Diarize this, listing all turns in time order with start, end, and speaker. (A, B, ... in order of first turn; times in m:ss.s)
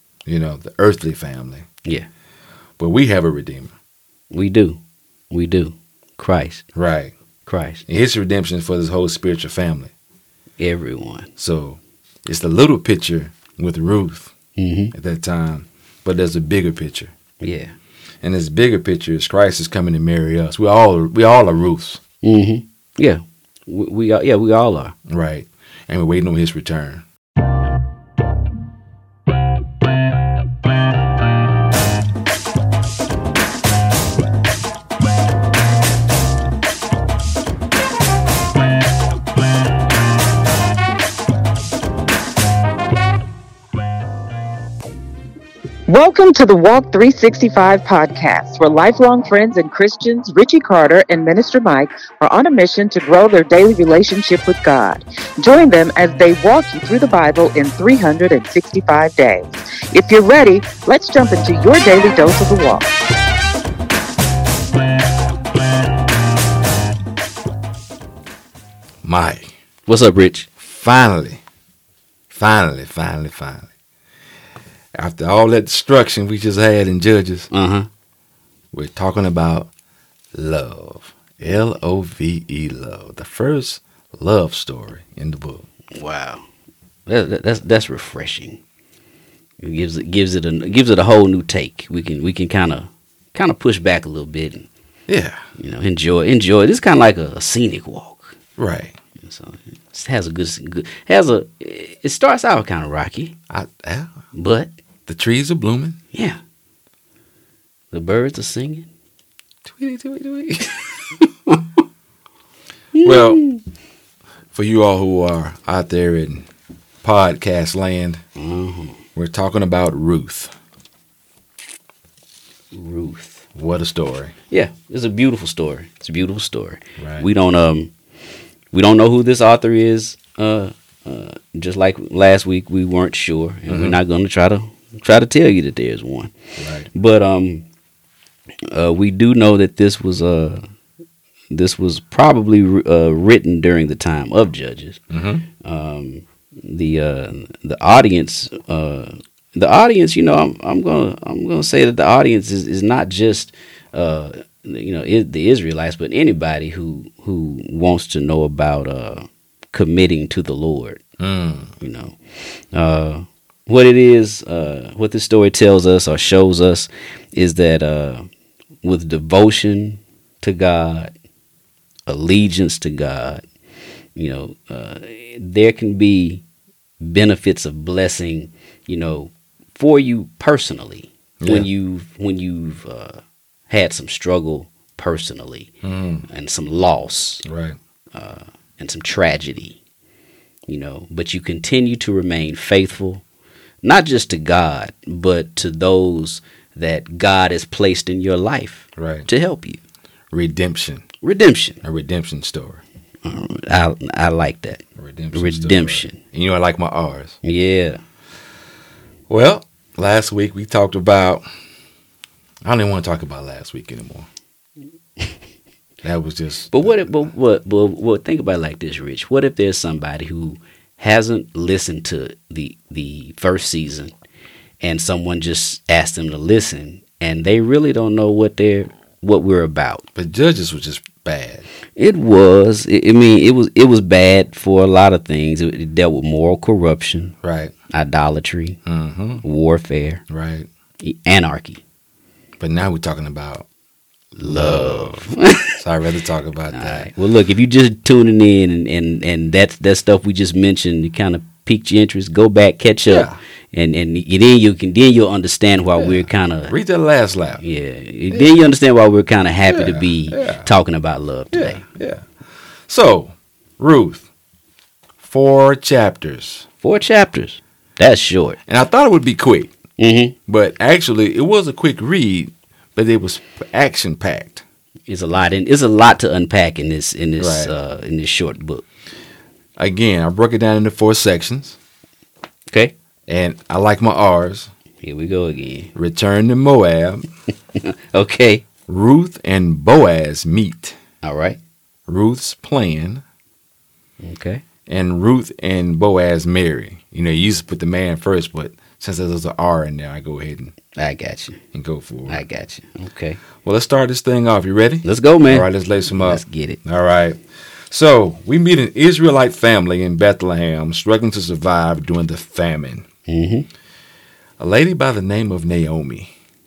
0:00.2-0:01.7 A
0:02.8-0:03.7 A
0:04.3-0:04.8 B
0:05.3-0:06.6 B
0:06.8-0:07.1 A
0:07.4-0:07.8 B
0:07.9-0:09.9 A
0:10.6-0:11.3 B
0:11.4-0:14.3 A
0:14.6-0:14.9 B
0:14.9-0:17.1 A
0:17.4-0:17.7 B
0:18.2-0:22.0 A
0:22.2-0:25.0 B
0:25.1-0:27.0 A
0:45.9-1:02.9 C
1:09.0-1:09.5 A
1:09.9-1:10.5 B
1:10.6-1:11.4 A
1:12.3-1:13.7 A
1:15.0-1:17.5 A
1:17.5-1:17.9 B
1:18.7-1:19.7 A
1:20.3-1:25.7 A
1:25.9-1:26.4 B
1:27.1-1:28.6 B
1:29.6-1:34.7 B
1:35.1-1:35.4 A
1:35.6-1:38.4 B
1:38.6-1:39.0 A
1:39.2-1:43.4 B
1:43.5-1:44.1 A
1:44.3-1:44.7 B
1:45.1-1:46.0 A
1:46.1-1:46.4 B
1:47.9-1:48.9 B
1:49.7-1:51.1 A
1:52.9-1:53.6 B
1:53.0-1:53.4 A
1:54.5-1:56.5 A
1:57.0-1:58.2 A
1:58.4-1:59.0 B
1:59.2-2:00.5 A
2:02.7-2:03.4 B
2:03.6-2:04.3 A
2:04.5-2:07.9 B
2:07.0-2:07.3 A
2:08.7-2:16.3 B
2:13.7-2:14.0 A
2:16.6-2:16.9 A
2:16.9-2:17.7 B
2:18.7-2:20.6 B
2:21.5-2:25.0 B
2:25.1-2:25.5 A
2:25.6-2:41.0 B
2:41.2-2:41.7 A
2:41.8-2:48.2 B
2:48.8-2:51.1 B
2:52.1-2:53.4 B
2:54.2-2:56.4 B
2:57.0-3:05.7 B
3:01.4-3:01.7 A
3:05.8-3:06.2 A
3:06.3-3:07.4 B
3:07.4-3:07.8 A
3:08.1-3:09.8 B
3:10.7-3:13.2 B
3:13.8-3:19.8 B
3:19.0-3:19.3 A
3:20.3-3:21.0 A
3:21.2-3:21.8 B
3:21.8-3:22.8 A
3:23.2-3:24.8 B
3:25.0-3:27.4 A
3:25.3-3:26.2 B
3:27.4-3:28.0 B
3:29.3-3:31.4 A
3:32.6-3:34.3 A
3:36.0-3:37.1 A
3:36.7-3:44.1 B
3:44.8-3:50.0 B
3:50.2-3:51.7 A
3:52.0-3:57.3 B
3:57.4-3:57.7 A
3:57.9-3:58.8 B
3:58.9-3:59.4 A
3:59.4-4:00.2 B
4:00.3-4:00.7 A
4:01.0-4:01.8 B
4:02.6-4:03.7 A
4:04.3-4:07.1 A
4:04.4-4:05.8 B
4:06.7-4:16.8 B
4:13.1-4:13.4 A
4:16.0-4:17.6 A
4:17.6-4:21.8 B
4:18.3-4:18.5 A
4:19.7-4:20.7 A
4:21.5-4:22.3 A
4:22.9-4:24.3 A
4:25.2-4:26.7 A
4:26.8-4:28.6 B
4:28.7-4:29.7 A
4:30.0-4:30.4 B
4:30.5-4:34.6 A
4:35.1-4:38.8 B
4:37.4-4:37.7 A
4:39.8-4:41.8 A
4:42.7-4:42.9 B
4:43.3-4:44.7 A
4:45.0-4:45.9 B
4:45.9-4:47.2 A
4:47.8-4:48.6 B
4:48.9-4:51.0 A
4:51.2-4:51.6 B
4:52.1-4:53.2 A
4:54.2-4:54.6 B
4:54.9-5:00.7 A
5:00.9-5:01.6 B
5:01.7-5:02.4 A
5:02.3-5:03.4 B
5:03.6-5:13.1 A
5:05.0-5:06.8 B
5:13.3-5:13.7 B
5:14.6-5:16.3 A